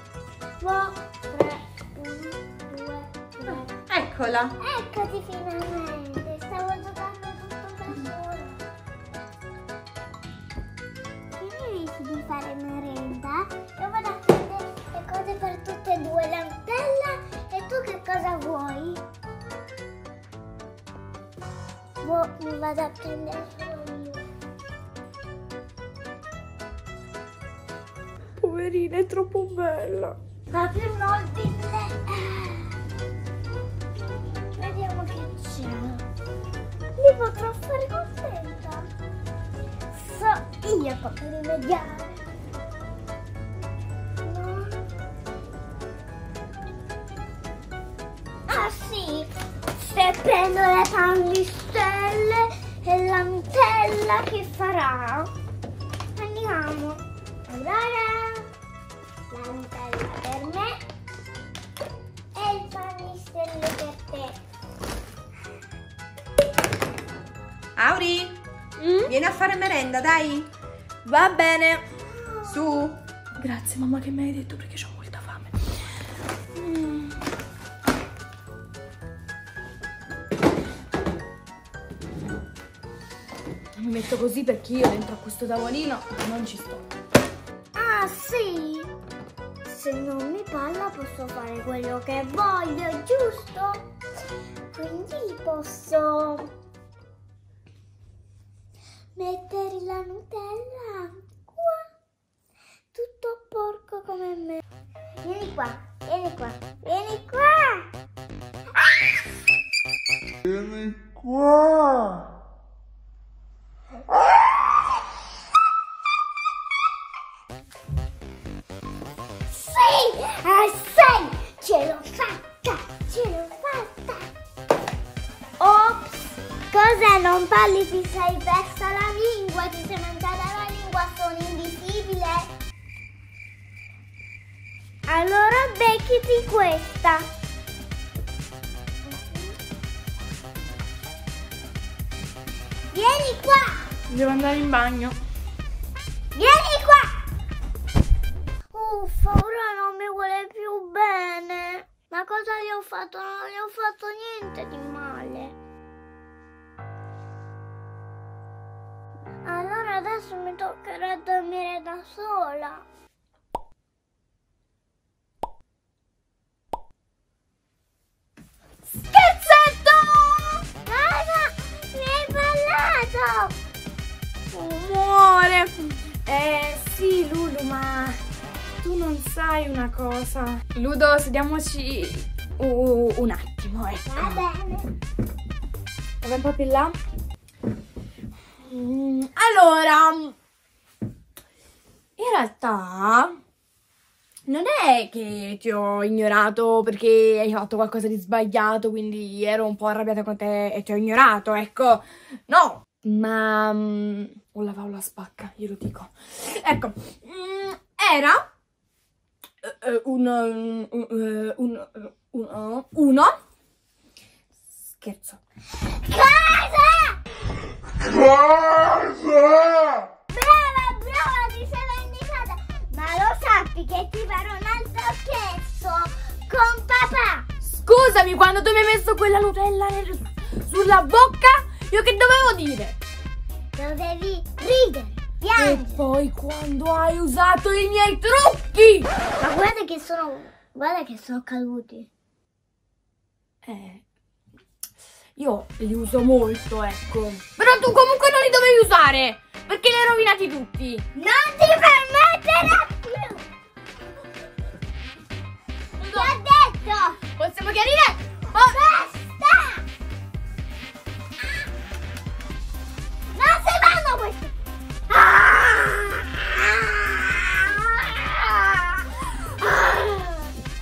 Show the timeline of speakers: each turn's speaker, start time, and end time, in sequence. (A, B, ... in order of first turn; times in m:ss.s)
0:00.6-0:03.7 A
0:03.4-0:04.5 B
0:04.6-0:08.6 A
0:11.4-0:19.0 A
0:22.0-0:24.2 A
0:28.4-0:30.2 C
0:30.5-0:32.8 A
0:34.0-0:36.0 A
0:37.0-0:38.9 A
0:39.9-0:42.2 A
0:44.2-0:44.7 A
0:48.5-0:55.3 A
0:56.2-0:58.5 A
0:59.3-1:00.8 A
1:02.3-1:04.4 A
1:07.8-1:08.4 B
1:08.8-1:09.1 C
1:09.1-1:10.5 B
1:11.0-1:11.8 C
1:12.1-1:12.6 A
1:12.5-1:13.0 B
1:13.4-1:15.8 C
1:16.5-1:17.2 C
1:23.8-1:26.9 C
1:27.7-1:28.9 A
1:29.6-1:33.8 A
1:34.7-1:36.5 A
1:39.2-1:41.8 A
1:42.9-1:44.6 A
1:45.2-1:47.9 A
1:59.5-2:04.3 A
2:05.6-2:12.5 A
2:15.1-2:17.3 A
2:19.0-2:19.5 A
2:22.9-2:23.9 A
2:24.1-2:25.2 C
2:26.3-2:27.2 A
2:28.7-2:35.5 A
2:39.4-2:42.8 A
2:49.0-2:50.6 C
2:50.8-2:53.5 A
2:54.5-2:58.2 C
2:58.8-3:04.4 C
3:04.1-3:04.9 A
3:06.2-3:07.0 C
3:08.6-3:10.3 C
3:12.2-3:13.4 C
3:14.4-3:28.4 C
3:29.6-3:33.3 C
3:34.8-3:35.4 C
3:35.7-3:37.2 A
3:40.3-3:47.4 A
3:47.6-3:53.0 C
3:53.7-3:56.0 A
3:55.6-3:59.1 C
3:59.4-4:02.1 A
4:03.6-4:04.0 C
4:05.4-4:11.0 C
4:11.1-4:13.4 A
4:16.0-4:17.2 A
4:16.0-4:16.4 C
4:17.3-4:18.6 C
4:18.5-4:19.8 A
4:23.3-4:24.5 A
4:25.1-4:30.5 A